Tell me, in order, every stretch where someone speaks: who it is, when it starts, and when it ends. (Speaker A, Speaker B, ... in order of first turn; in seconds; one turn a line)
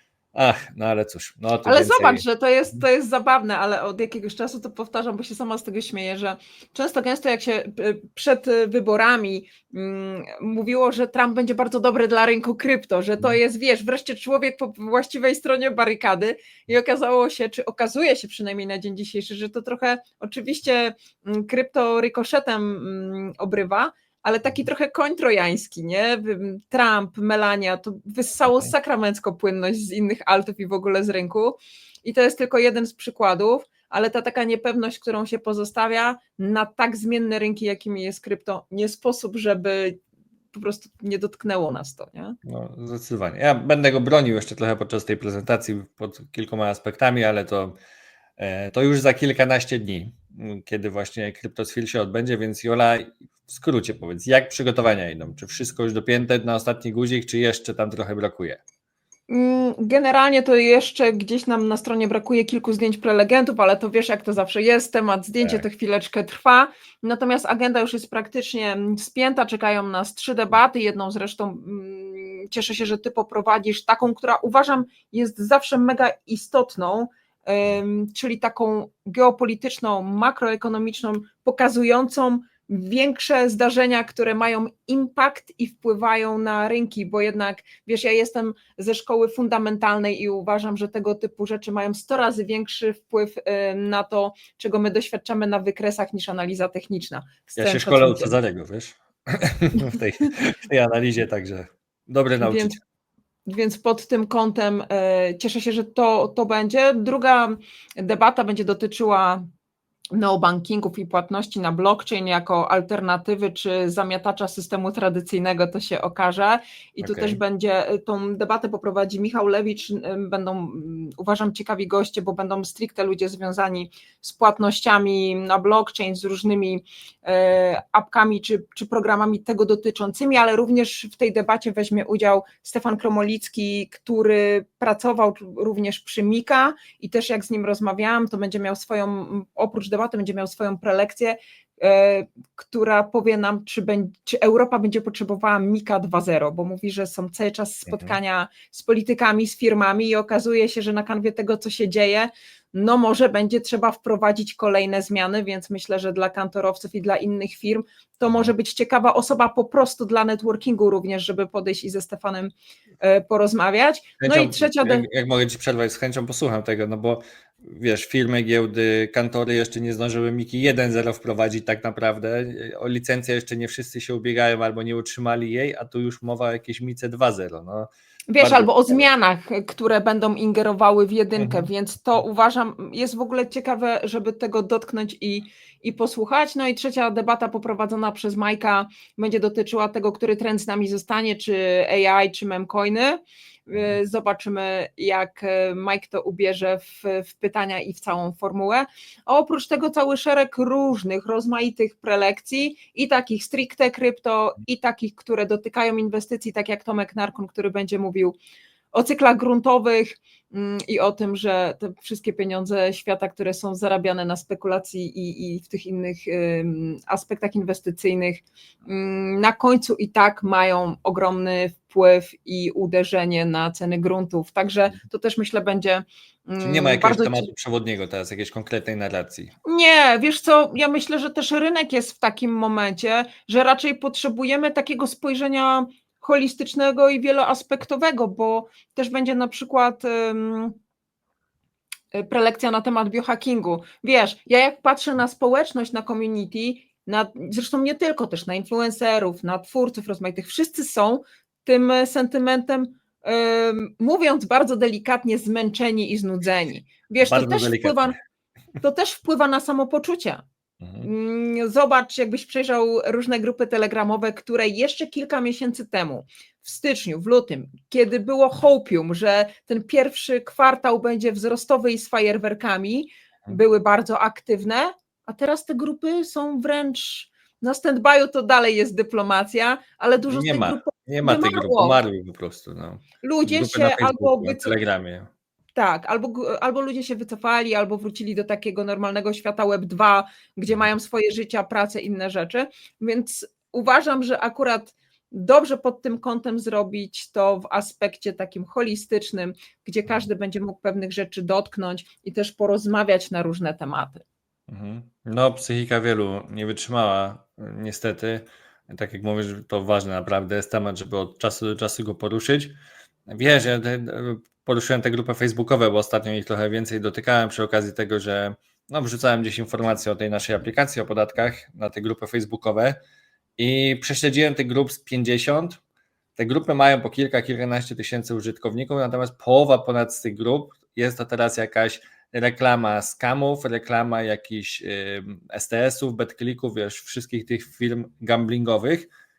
Speaker A: 0.3-2.2
Speaker B: 1.6-40.0
Speaker B: 40.5-42.4
Speaker A: 42.5-47.8
Speaker A: 48.4-58.6
Speaker B: 59.3-98.4
Speaker A: 97.6-102.8
Speaker B: 102.4-102.8
Speaker B: 103.5-109.5
Speaker B: 110.1-165.1
Speaker A: 117.0-117.4
Speaker A: 147.9-148.2
Speaker A: 164.2-179.1
Speaker B: 178.3-208.4
Speaker A: 181.4-181.7
Speaker B: 208.9-227.5
Speaker A: 226.6-229.5
Speaker B: 229.7-240.8
Speaker B: 242.1-258.1
Speaker A: 257.2-258.1
Speaker B: 258.8-260.4
Speaker A: 260.8-261.1
Speaker B: 261.0-282.0
Speaker A: 280.3-285.3
Speaker B: 283.2-284.8
Speaker B: 285.8-304.2
Speaker A: 304.7-323.0
Speaker A: 323.6-325.8
Speaker A: 326.4-339.1